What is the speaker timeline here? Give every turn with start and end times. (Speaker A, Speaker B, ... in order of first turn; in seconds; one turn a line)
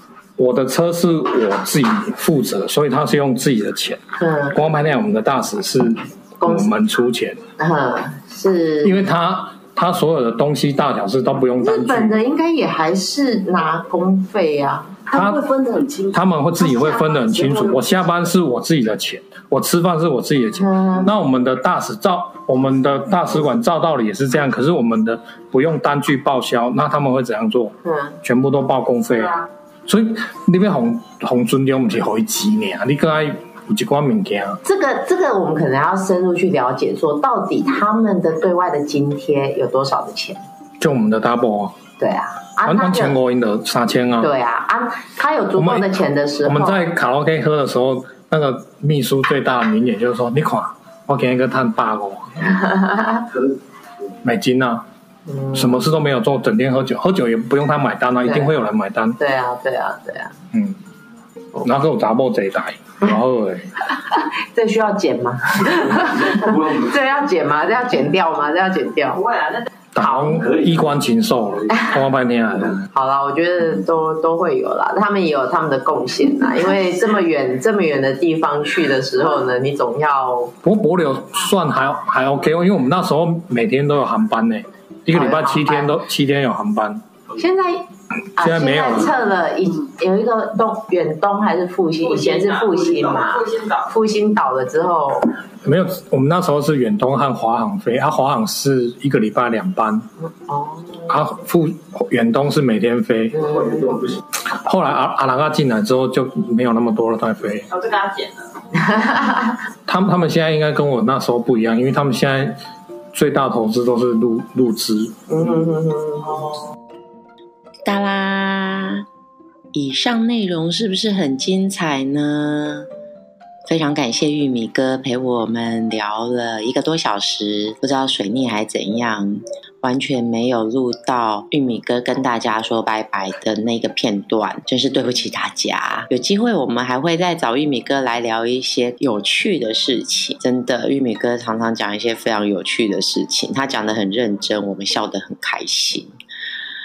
Speaker A: 0.4-4.0
Speaker B: 4.2-4.6
Speaker A: 4.5-7.4
Speaker B: 6.4-6.7
Speaker B: 7.6-9.1
Speaker A: 8.8-12.2
Speaker B: 11.6-15.0
Speaker C: 15.1-17.8
Speaker A: 15.1-15.5
Speaker A: 16.1-34.6
Speaker B: 20.6-21.1
Speaker B: 27.9-28.2
Speaker B: 34.6-40.4
Speaker A: 40.8-41.8
Speaker B: 42.0-43.2
Speaker A: 42.7-44.3
Speaker B: 44.2-46.8
Speaker A: 45.5-52.6
Speaker B: 52.4-53.3
Speaker A: 54.2-54.9
Speaker B: 55.3-55.8
Speaker A: 55.5-59.2
Speaker B: 58.3-58.6
Speaker B: 59.2-60.3
Speaker A: 60.5-60.8
Speaker A: 61.6-63.7
Speaker B: 64.1-69.3
Speaker D: 69.2-69.7
Speaker A: 70.0-72.9
Speaker B: 72.9-80.5
Speaker A: 80.6-87.0
Speaker B: 85.1-86.0
Speaker B: 87.4-95.4
Speaker A: 88.4-89.2
Speaker D: 92.0-93.9
Speaker A: 95.6-100.1
Speaker B: 100.2-101.1
Speaker A: 101.1-103.6
Speaker B: 103.3-104.1
Speaker A: 104.3-107.7
Speaker D: 107.7-108.5
Speaker B: 108.8-109.6
Speaker A: 109.9-112.6
Speaker A: 113.1-115.2
Speaker B: 115.3-116.6
Speaker E: 117.9-119.1
Speaker E: 119.7-122.9
Speaker E: 123.7-146.1